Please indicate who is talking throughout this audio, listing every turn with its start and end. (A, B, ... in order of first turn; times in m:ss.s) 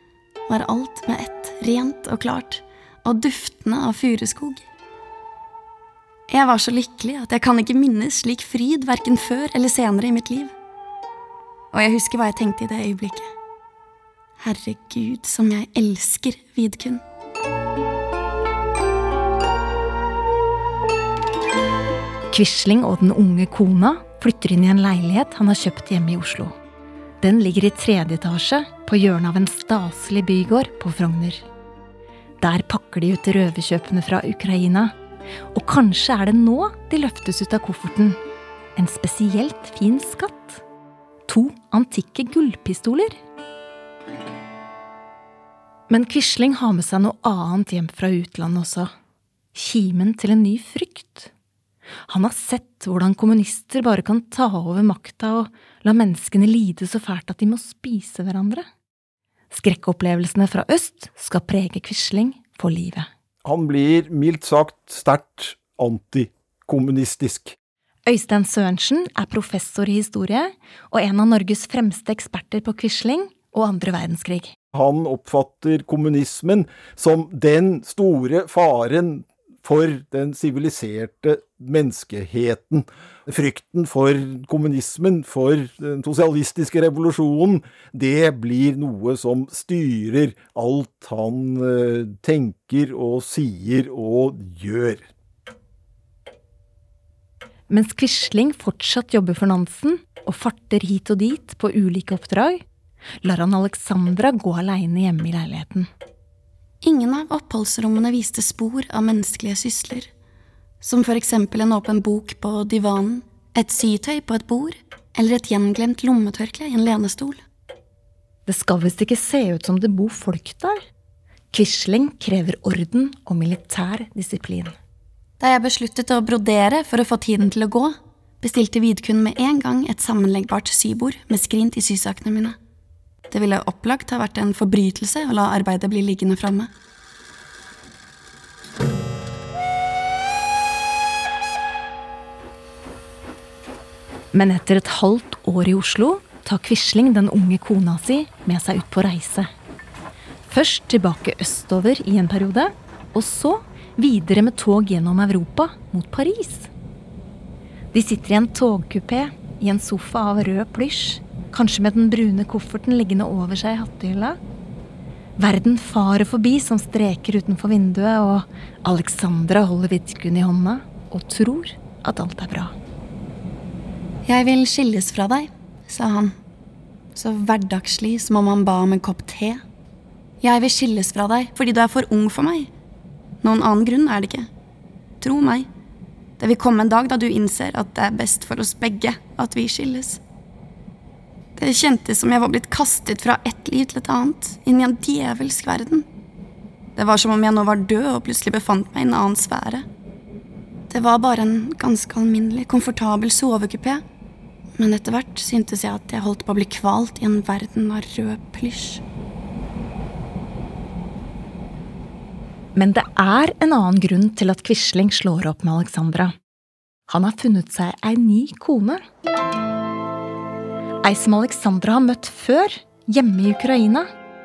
0:00.5-0:04.6 A
0:06.3-0:10.5 A
0:11.7-0:13.3 A
0:14.4-0:17.0 A
0:22.3-0:26.5 B
0:27.2-0:31.4 B
0:32.4-0:34.9 B
0:35.5-0:38.2 B
0:38.8-0:40.6 B
0:41.3-0:43.2 B
0:45.9-0:48.9 B
0:49.5-0:51.3 B
0:52.1-0:58.6 B
0:59.5-1:03.1 B
1:03.4-1:07.6 C
1:08.0-1:14.5 B
1:14.7-1:35.1 C
1:37.7-1:42.6 B
1:43.2-1:45.9 B
1:46.8-1:50.1 A
1:50.8-1:57.4 A
1:58.4-2:00.8 B
2:01.5-2:04.7 B
2:05.4-2:12.6 A
2:13.3-2:16.7 A
2:24.3-2:29.5 B
2:30.4-2:36.7 B
2:37.9-2:44.4 B
2:45.4-2:52.7 B
2:54.2-2:56.4 A
2:57.1-2:59.6 A
3:00.4-3:02.7 A
3:03.4-3:04.5 A
3:05.2-3:05.7 A
3:06.4-3:10.2 A
3:11.6-3:16.0 A
3:17.0-3:19.8 A
3:20.9-3:24.0 A
3:24.8-3:29.0 A
3:32.8-3:36.3 B
3:37.1-3:39.0 B
3:41.0-3:44.1 B